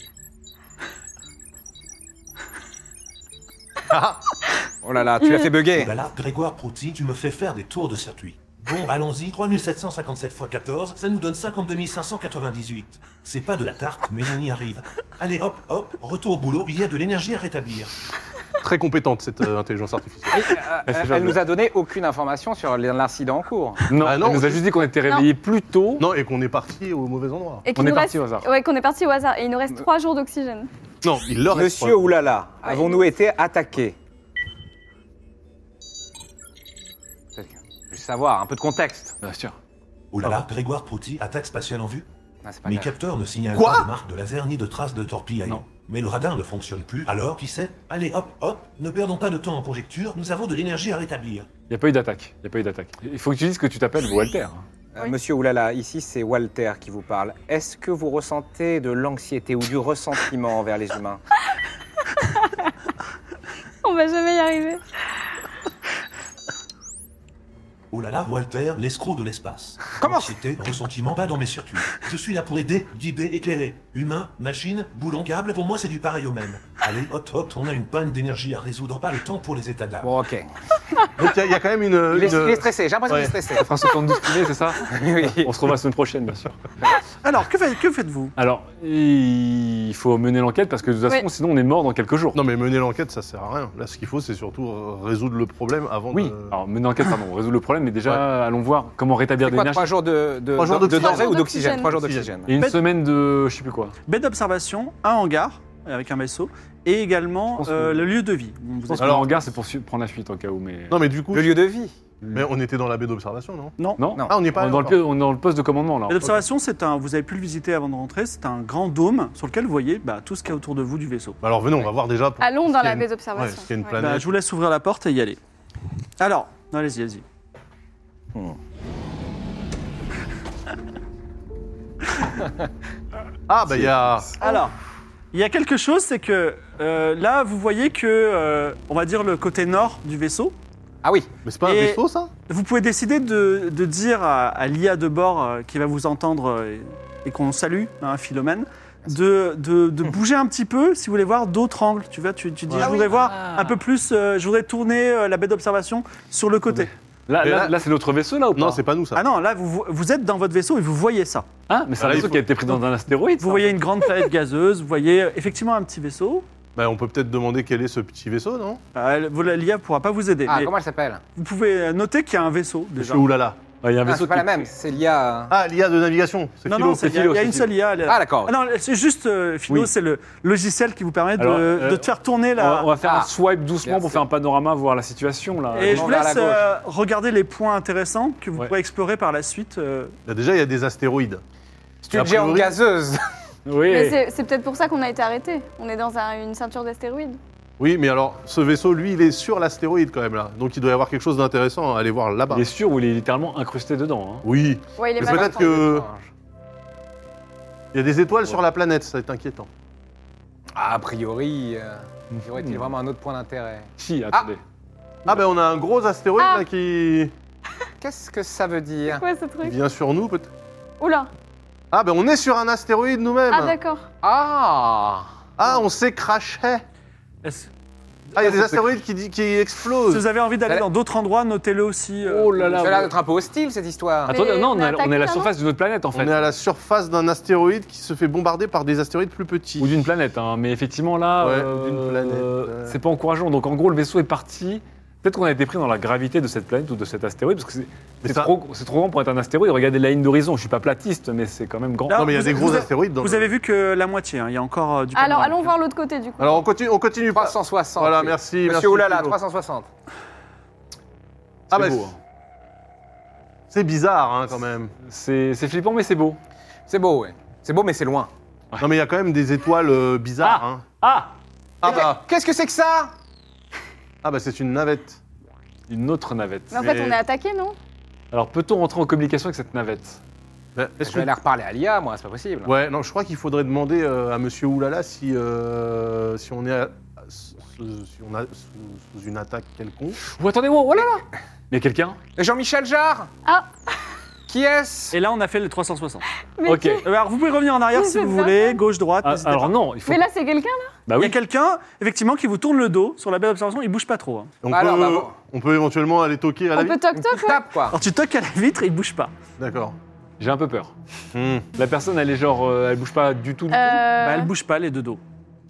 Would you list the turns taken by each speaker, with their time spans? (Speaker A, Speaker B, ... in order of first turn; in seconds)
Speaker A: 3.9-4.2, 18.6-20.4, 24.0-24.7, 26.0-27.6, 31.0-32.1, 43.5-43.9, 81.2-83.3, 92.3-96.5, 100.5-101.4, 101.9-102.3, 109.0-109.3, 110.9-111.6, 112.3-113.8, 114.3-115.0, 121.4-124.3, 133.5-134.3, 141.4-142.3, 157.4-157.7, 158.5-159.2, 162.0-162.4, 166.8-168.8, 173.0-173.6, 175.5-177.1, 190.2-191.4, 192.1-192.8, 197.8-202.6, 204.4-206.1, 207.9-209.7, 215.2-217.3, 219.6-220.5, 221.9-223.7, 225.6-226.8, 228.3-230.2, 236.1-239.9, 241.4-242.9, 248.2-248.5, 252.1-253.5, 256.4-259.4, 261.7-262.1, 263.7-264.9, 268.8-270.8, 271.8-272.2, 274.2-275.2, 276.7-277.2, 280.8-281.3, 282.6-290.2, 304.6-307.0, 309.6-309.9, 311.3-311.6
Speaker B: 4.8-5.9, 20.3-23.9, 31.5-34.0, 37.4-39.1, 42.4-42.9, 54.9-61.2, 70.0-70.3, 80.0-80.5, 82.1-83.7, 84.8-85.5, 99.4-102.5, 111.3-111.9, 141.0-141.3, 170.4-171.2, 174.0-175.5, 178.1-178.5, 183.0-183.3, 183.8-184.2, 185.8-186.7, 192.0-193.2, 205.2-206.3, 210.7-214.5, 218.0-219.2, 224.2-225.3, 232.7-234.3, 257.3-259.9, 266.9-268.3, 271.8-273.1, 281.0-282.7, 292.4-293.3, 294.5-295.1, 304.7-305.4, 307.1-308.0
Speaker C: 5.2-5.6, 27.6-30.7, 32.6-33.0, 62.2-62.7, 63.8-64.8, 100.8-102.0, 122.4-124.1, 193.9-197.4, 205.0-205.8, 216.4-216.7, 219.1-219.8, 221.0-221.3, 223.5-224.1, 234.3-235.5, 255.1-256.6, 276.7-277.8, 296.6-297.1, 297.9-298.8, 300.1-300.9, 306.7-307.6, 313.7-314.5
Speaker D: 5.7-17.9, 40.1-42.0, 42.6-51.5, 67.9-80.1
Speaker E: 20.9-21.4, 23.9-26.1, 27.7-28.5, 39.2-39.5, 51.7-54.6, 83.6-86.6, 88.3-92.4, 96.1-99.9, 102.5-104.0, 107.6-108.1, 108.9-111.0, 114.0-116.4, 152.7-153.8, 156.7-158.8, 161.7-163.8, 173.8-174.7, 176.9-177.7, 181.4-186.1, 193.7-194.2, 202.5-204.4, 212.3-212.9, 214.0-214.6, 232.2-233.1, 234.3-236.5, 239.8-252.8, 261.7-262.2, 265.1-266.4, 270.4-271.3, 275.9-276.8, 278.3-280.2, 290.2-292.2, 296.6-297.0, 299.2-300.2, 301.1-301.4, 310.4-310.9, 311.8-314.0
Speaker F: 87.2-88.3, 104.1-109.3, 116.1-121.4, 124.0-125.4, 126.2-127.2, 134.4-134.7, 135.3-140.5, 141.6-156.9, 159.1-161.5, 163.4-166.4, 168.9-170.7, 171.3-173.3, 176.7-182.9, 185.7-190.1, 227.4-227.7, 228.3-228.8, 230.1-233.0, 252.1-255.7, 295.1-296.2, 297.0-299.7, 301.2-304.5, 307.9-309.3, 314.2-315.2